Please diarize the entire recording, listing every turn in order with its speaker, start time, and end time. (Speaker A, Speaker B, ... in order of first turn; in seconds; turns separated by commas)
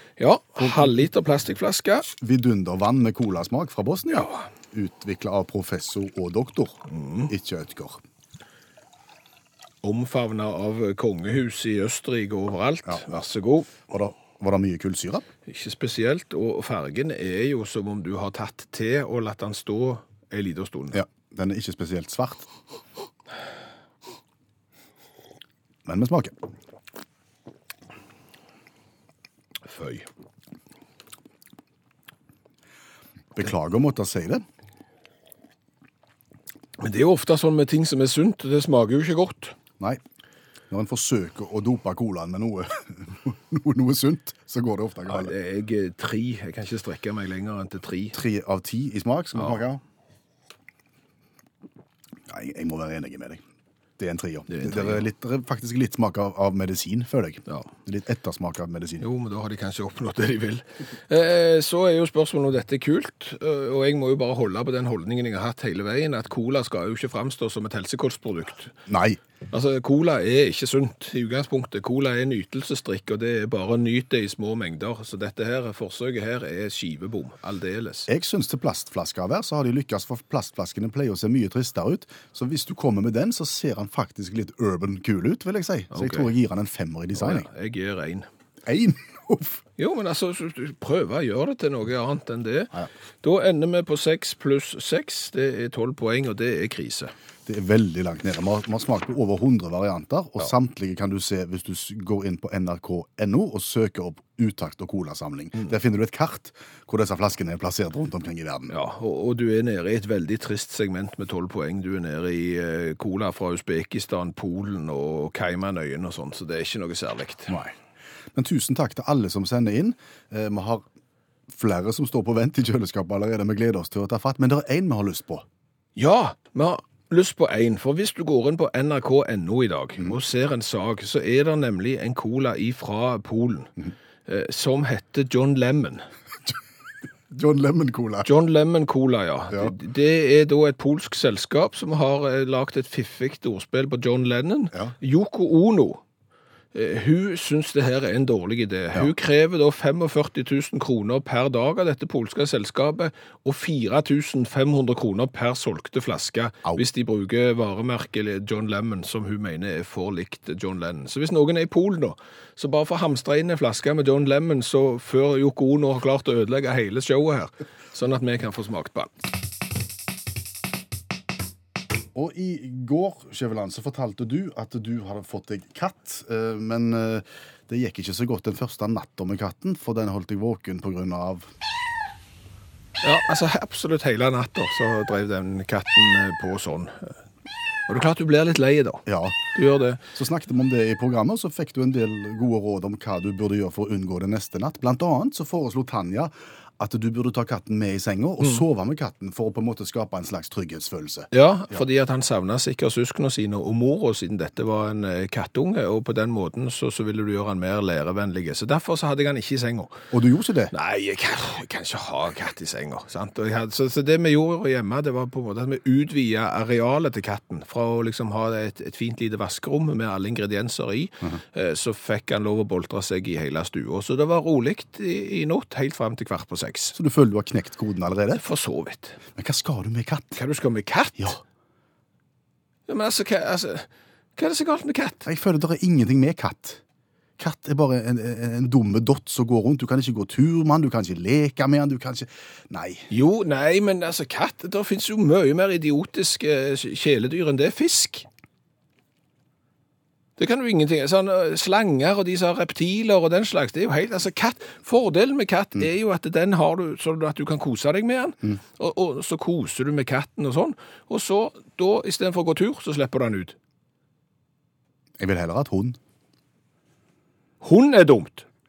Speaker A: 0.2-2.1, Speaker B: 0.6-1.0, Speaker B: 2.1-8.0, Speaker A: 6.9-7.3, Speaker A: 9.8-13.7, Speaker B: 12.8-13.2, Speaker B: 13.8-15.2, Speaker A: 15.5-21.0, Speaker B: 20.9-22.5, Speaker B: 25.8-26.3, Speaker A: 29.6-30.1, Speaker B: 33.3-34.4, Speaker A: 36.8-39.5, Speaker B: 40.7-45.3, Speaker A: 45.1-48.2, Speaker B: 48.1-49.8, Speaker B: 52.3-53.4, Speaker B: 54.0-59.0, Speaker A: 54.5-55.0, Speaker A: 59.0-68.7, Speaker B: 68.9-69.2, Speaker A: 69.5-78.1, Speaker B: 78.1-87.5, Speaker A: 85.9-86.3, Speaker A: 87.2-88.3, Speaker B: 88.7-89.6, Speaker A: 89.8-92.7, Speaker A: 93.2-97.1, Speaker B: 97.5-108.7, Speaker A: 108.7-117.5, Speaker B: 117.5-117.7, Speaker B: 118.3-120.8, Speaker B: 121.5-125.4, Speaker A: 126.0-133.7, Speaker A: 134.2-136.1, Speaker B: 137.3-138.3, Speaker A: 138.2-146.0, Speaker A: 146.7-169.1, Speaker B: 172.1-181.5, Speaker A: 183.0-187.1, Speaker A: 187.9-190.0, Speaker B: 189.1-189.4, Speaker B: 190.1-201.8, Speaker A: 201.3-209.9, Speaker B: 210.1-210.7, Speaker A: 210.7-226.9, Speaker B: 226.9-228.4, Speaker A: 228.3-229.2, Speaker B: 229.3-230.4, Speaker A: 230.3-231.4, Speaker A: 232.9-235.3, Speaker B: 235.2-236.8, Speaker B: 237.4-243.1, Speaker A: 243.1-248.2, Speaker A: 250.4-263.5, Speaker B: 265.2-266.0, Speaker A: 267.6-268.4